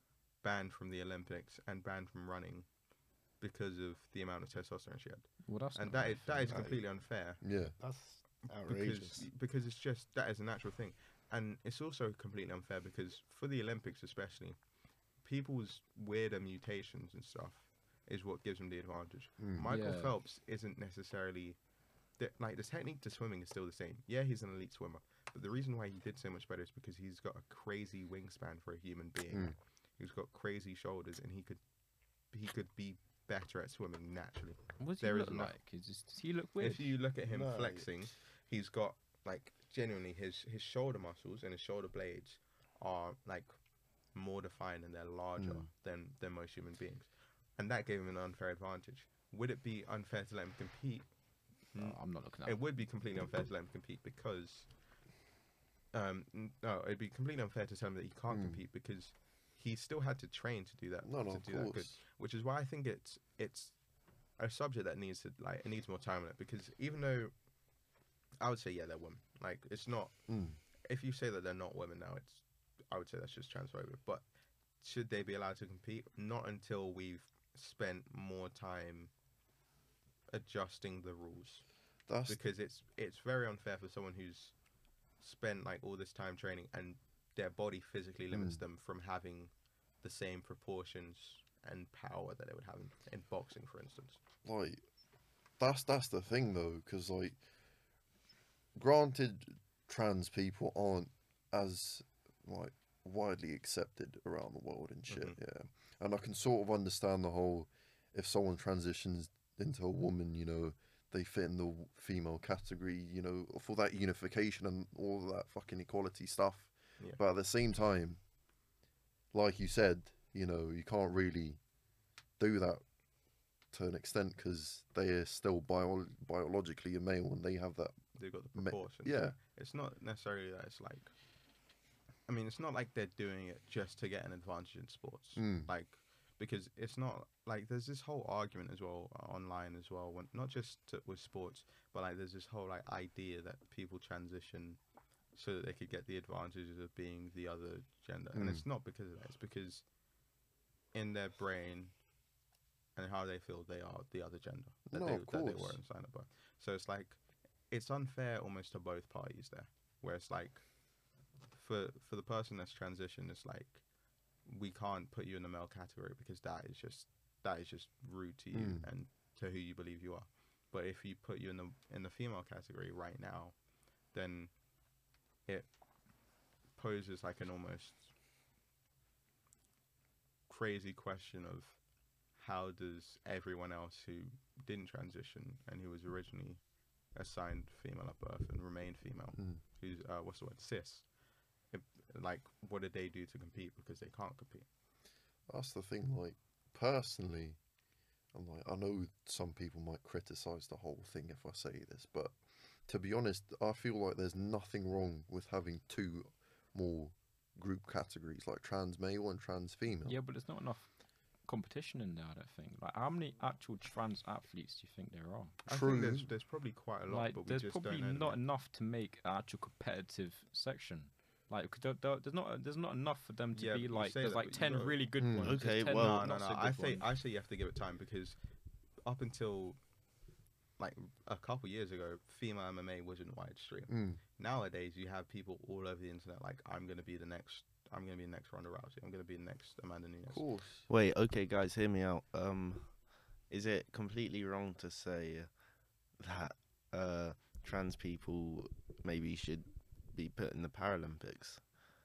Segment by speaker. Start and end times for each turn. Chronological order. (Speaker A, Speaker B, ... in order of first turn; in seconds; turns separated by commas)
Speaker A: 0.4-2.7, Speaker A: 3.4-7.4, Speaker B: 5.5-6.7, Speaker C: 6.5-6.8, Speaker D: 7.4-7.8, Speaker C: 7.8-9.3, Speaker A: 8.7-14.6, Speaker A: 15.2-21.6, Speaker D: 19.4-19.7, Speaker B: 19.6-20.1, Speaker A: 22.2-31.6, Speaker D: 29.3-29.6, Speaker A: 32.3-35.5, Speaker B: 34.8-37.0, Speaker A: 36.6-43.5, Speaker C: 37.3-37.9, Speaker A: 44.1-51.1, Speaker D: 45.4-45.7, Speaker A: 51.7-54.7, Speaker B: 51.8-52.6, Speaker A: 55.9-63.8, Speaker D: 58.3-58.6, Speaker D: 61.0-62.0, Speaker A: 64.4-67.3, Speaker A: 68.4-70.2, Speaker D: 70.3-70.6, Speaker A: 70.8-74.2, Speaker A: 74.8-79.1, Speaker A: 80.3-81.6, Speaker D: 82.1-82.4, Speaker A: 82.3-84.5, Speaker A: 85.2-89.5, Speaker D: 88.3-88.6, Speaker A: 90.0-94.2, Speaker D: 94.4-94.8, Speaker D: 95.6-97.4, Speaker D: 98.8-118.2, Speaker A: 105.1-105.4, Speaker D: 119.3-121.6, Speaker D: 122.4-122.8, Speaker D: 123.7-129.4, Speaker A: 128.2-131.1, Speaker A: 132.3-144.8, Speaker D: 135.4-135.7, Speaker A: 145.3-149.8, Speaker D: 148.3-148.7, Speaker A: 150.9-151.9, Speaker A: 153.0-160.7, Speaker D: 154.9-155.8, Speaker A: 161.5-163.8, Speaker A: 164.4-173.6, Speaker D: 168.5-168.9, Speaker A: 174.1-174.5, Speaker A: 176.8-178.1, Speaker A: 180.5-181.8, Speaker A: 182.4-186.6, Speaker A: 187.2-191.1, Speaker A: 191.7-194.7, Speaker D: 195.5-197.6, Speaker D: 198.3-202.4, Speaker D: 202.9-210.2, Speaker B: 210.1-210.9, Speaker B: 211.4-215.6, Speaker D: 215.7-216.3, Speaker A: 215.7-218.4, Speaker B: 217.1-227.1, Speaker A: 223.5-225.1, Speaker D: 225.2-225.6, Speaker C: 225.4-226.3, Speaker A: 225.8-228.4, Speaker A: 229.1-229.8, Speaker A: 230.8-240.4, Speaker D: 233.9-234.2, Speaker D: 240.3-240.9, Speaker C: 240.9-245.5, Speaker C: 246.2-251.6